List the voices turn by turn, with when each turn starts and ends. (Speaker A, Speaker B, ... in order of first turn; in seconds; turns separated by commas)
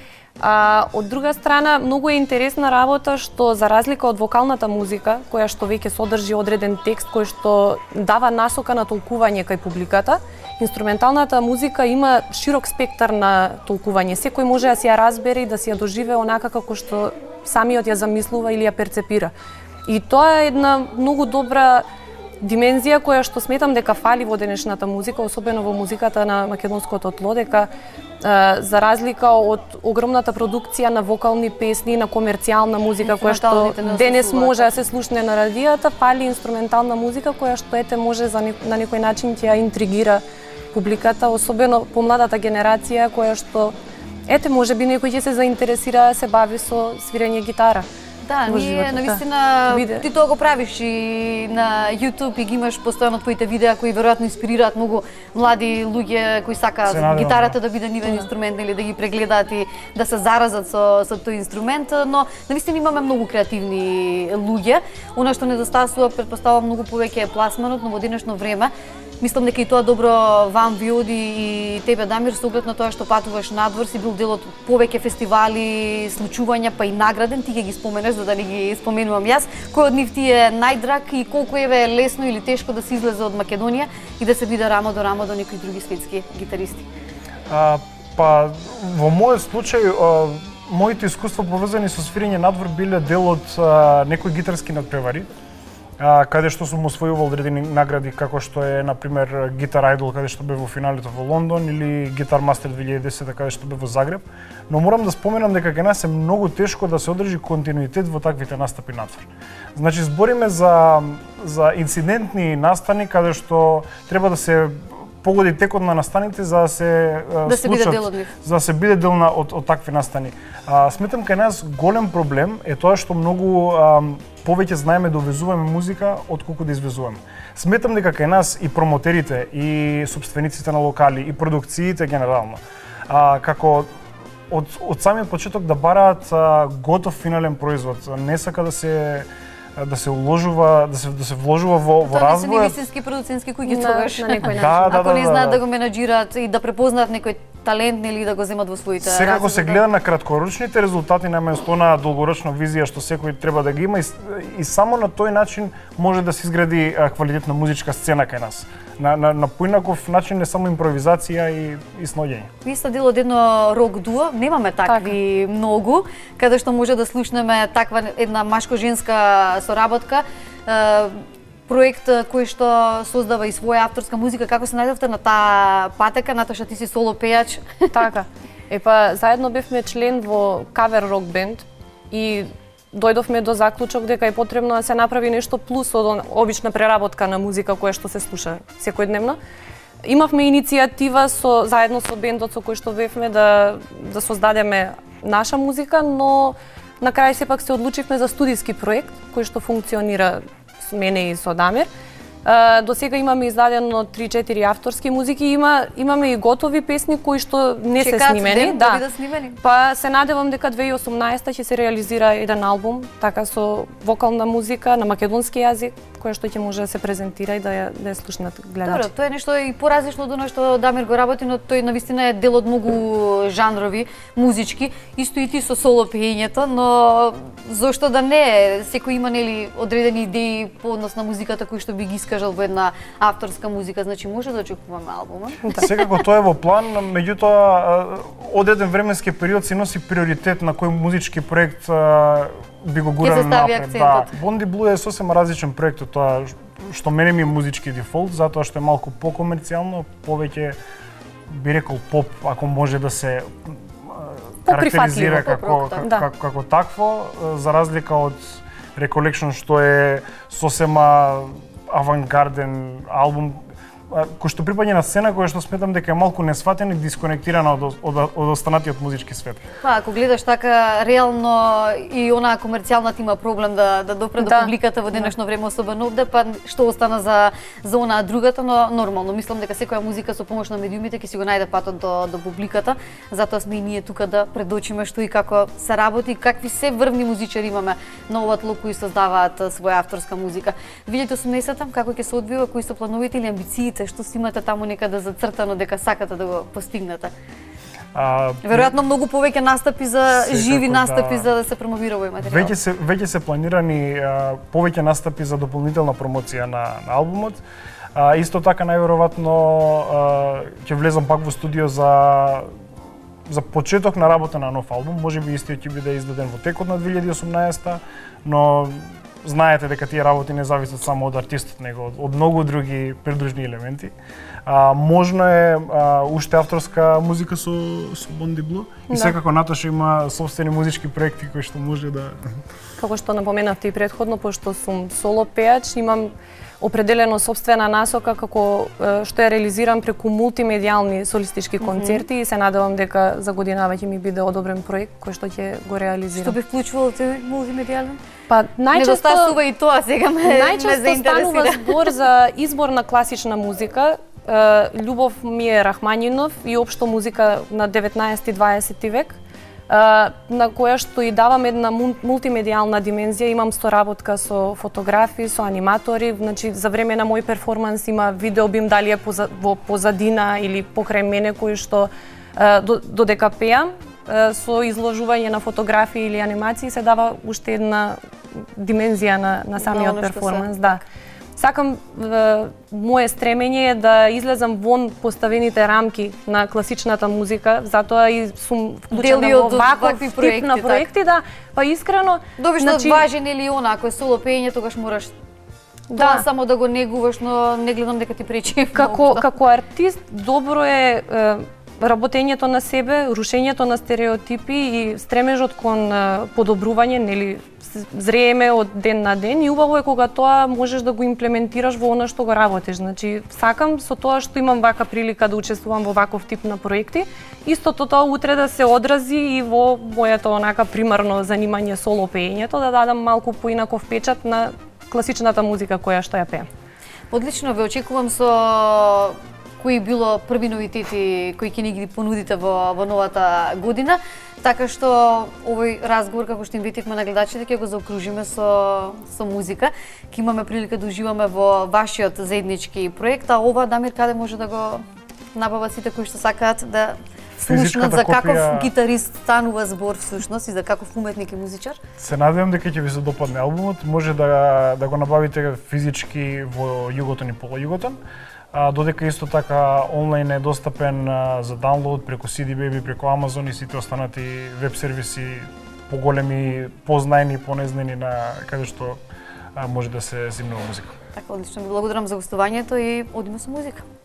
Speaker A: 0.4-19.3, Speaker A: 19.9-21.8, Speaker A: 22.4-27.7, Speaker A: 28.2-43.7, Speaker B: 33.0-34.7, Speaker A: 44.2-47.9, Speaker B: 48.2-86.9, Speaker A: 48.5-50.0, Speaker C: 56.9-57.6, Speaker C: 87.5-95.3, Speaker C: 96.0-133.9, Speaker B: 117.5-118.3, Speaker C: 134.5-142.8, Speaker B: 142.0-149.8, Speaker A: 143.6-145.0, Speaker C: 144.5-145.6, Speaker C: 149.0-162.5, Speaker B: 162.6-171.1, Speaker A: 164.9-165.1, Speaker B: 171.7-177.9, Speaker A: 177.9-189.4, Speaker A: 190.0-201.9, Speaker A: 202.4-209.0, Speaker B: 208.0-209.6, Speaker A: 209.6-219.1, Speaker B: 218.8-235.8, Speaker C: 235.7-250.8, Speaker B: 243.2-244.3, Speaker C: 251.5-269.6, Speaker A: 254.7-256.2, Speaker B: 255.4-256.1, Speaker B: 269.8-297.3, Speaker A: 274.4-275.3, Speaker C: 298.1-298.9, Speaker B: 298.6-302.7, Speaker C: 300.3-301.5, Speaker C: 302.4-307.6, Speaker C: 308.1-312.7, Speaker C: 313.5-324.1, Speaker C: 324.6-332.4, Speaker A: 329.1-329.4, Speaker A: 333.0-346.6, Speaker B: 341.8-342.2, Speaker B: 346.3-348.2, Speaker A: 348.5-349.6, Speaker B: 348.9-352.0, Speaker A: 350.4-359.4, Speaker A: 359.9-381.0, Speaker B: 379.8-381.0, Speaker A: 381.6-393.2, Speaker B: 389.1-391.1, Speaker B: 392.6-395.3, Speaker A: 396.1-396.4, Speaker B: 396.1-399.4, Speaker A: 398.9-426.7, Speaker B: 427.3-452.0, Speaker C: 447.6-448.9, Speaker C: 452.2-458.2, Speaker C: 458.7-469.2, Speaker C: 469.8-471.1, Speaker B: 471.3-474.0